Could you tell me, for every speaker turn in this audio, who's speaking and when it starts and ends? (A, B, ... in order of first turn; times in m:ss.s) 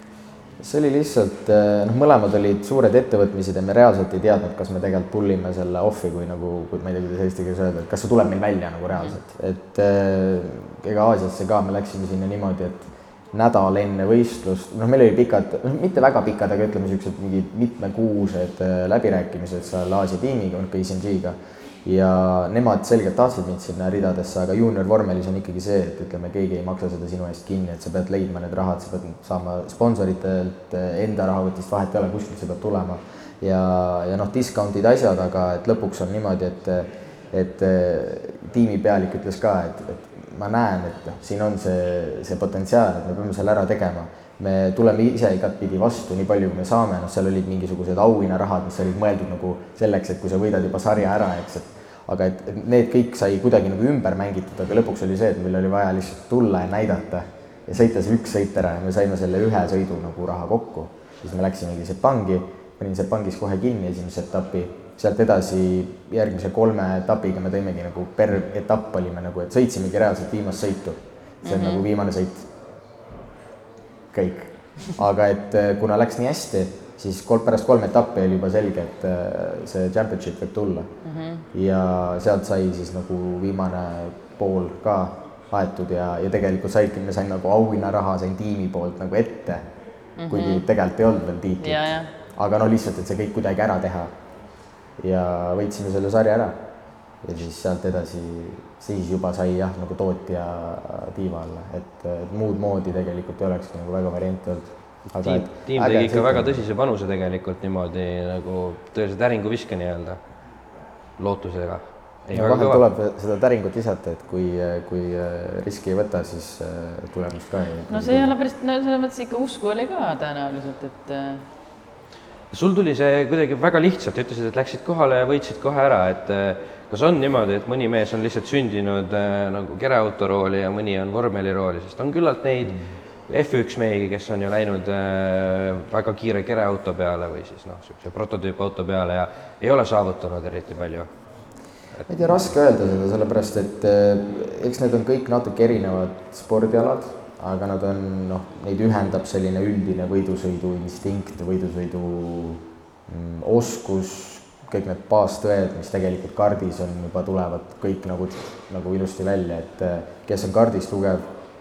0:00.6-1:12.5 A
1:11.4-1:11.9 B
1:14.1-1:20.9 A
1:21.0-1:21.4 B
1:21.5-1:29.6 A
1:30.2-1:30.6 B
1:30.3-1:34.1 A
1:31.6-1:32.1 B
1:35.0-1:36.6 A
1:37.2-1:46.6 A
1:45.1-1:50.2 C
1:51.2-1:52.8 C
1:52.3-1:58.3 A
1:57.9-2:01.4 B
2:02.5-2:21.1 C
2:22.1-2:41.2 A